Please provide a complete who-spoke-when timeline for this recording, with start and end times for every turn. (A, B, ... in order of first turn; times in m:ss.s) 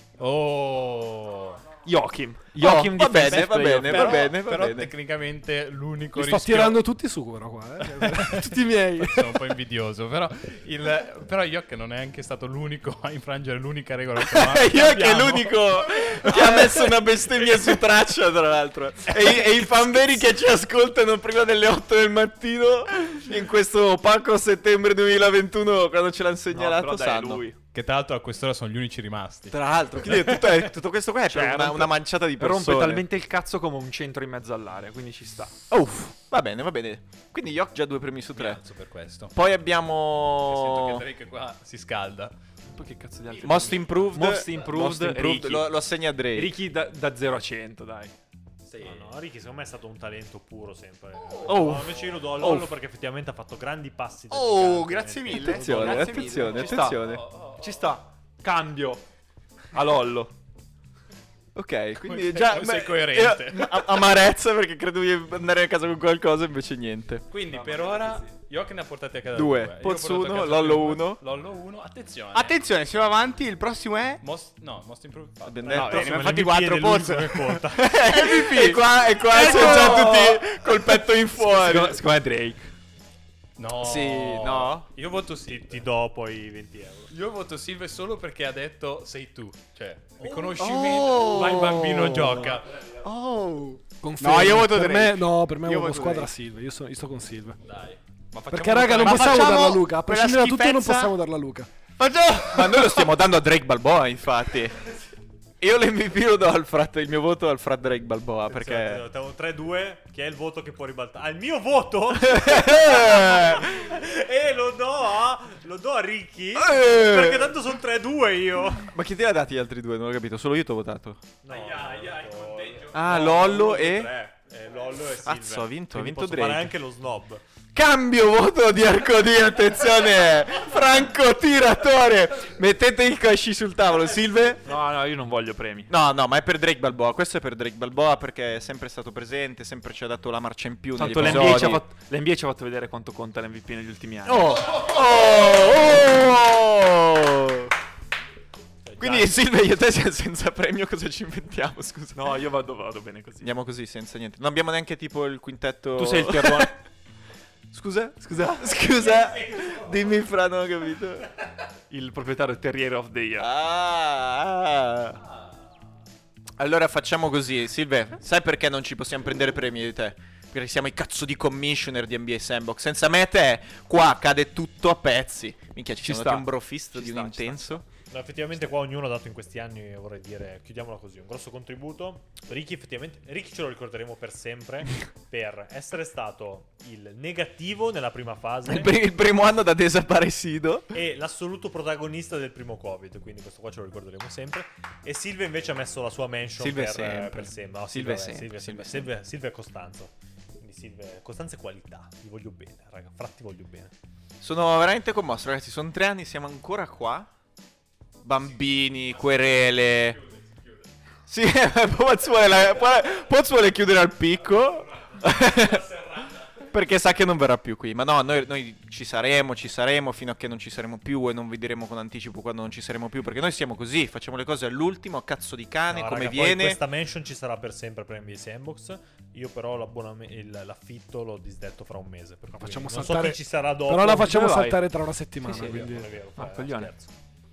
0:00.2-0:01.6 A
0:01.8-0:04.3 B
0:02.6-0:04.9 C
0:03.8-0:06.8 A
0:06.1-0:09.5 D
0:07.9-0:16.9 A
0:14.2-0:27.5 C
0:26.5-0:27.6 B
0:27.7-0:30.6 A
0:29.5-0:33.0 C
0:31.3-0:35.5 B
0:35.7-0:38.6 C
0:38.3-0:39.3 A
0:39.3-0:41.0 C
0:40.5-0:42.4 A
0:42.6-0:48.1 B
0:43.4-0:44.2 A
0:43.4-0:46.5 C
0:48.6-0:49.1 A
0:48.8-0:56.2 E
0:51.2-0:52.1 A
0:51.4-0:51.8 B
0:54.3-0:56.8 F
0:55.3-0:57.3 C
0:56.2-0:59.0 B
0:57.0-0:58.0 A
0:59.7-1:00.3 B
1:01.5-1:07.2 C
1:01.9-1:04.1 A
1:07.3-1:12.6 A
1:07.5-1:08.1 B
1:09.3-1:11.2 C
1:12.3-1:14.2 F
1:14.2-1:15.7 A
1:15.4-1:16.2 C
1:15.6-1:18.0 E
1:15.7-1:19.7 F
1:17.8-1:22.0 C
1:19.3-1:22.7 B
1:23.6-1:25.9 A
1:23.7-1:24.9 C
1:25.4-1:27.1 E
1:27.1-1:32.8 A
1:30.2-1:30.5 E
1:30.5-1:36.3 F
1:34.0-1:37.6 D
1:37.6-1:39.6 A
1:38.5-1:41.7 D
1:39.0-1:41.2 F
1:42.0-1:43.2 F
1:42.5-1:44.8 C
1:45.6-1:49.0 C
1:48.5-1:58.9 E
1:52.2-1:53.9 C
1:56.6-1:57.5 C
1:58.8-2:01.4 C
2:01.4-2:07.4 E
2:01.5-2:02.9 A
2:02.9-2:04.1 C
2:05.2-2:06.7 C
2:07.7-2:14.6 C
2:14.6-2:15.9 B
2:15.9-2:21.8 C
2:20.9-2:24.8 B
2:21.0-2:21.8 E
2:24.2-2:27.7 C
2:28.8-2:29.3 E
2:29.0-2:32.2 C
2:32.1-2:33.5 B
2:33.4-2:36.8 C
2:35.9-2:36.7 B
2:37.7-2:41.3 C
2:41.9-2:43.5 B
2:43.4-2:45.2 C
2:46.6-2:57.8 C
2:56.0-2:57.8 B
2:58.1-3:08.9 E
3:08.7-3:10.9 C
3:10.9-3:23.9 E
3:16.6-3:19.1 C
3:24.4-3:27.3 C
3:28.2-3:30.2 C
3:31.3-3:36.1 C
3:36.6-3:46.8 C
3:45.9-3:54.5 E
3:52.5-3:56.1 D
3:54.2-3:54.8 B
3:55.4-3:55.8 B
3:55.5-3:57.1 E
3:56.4-3:56.9 B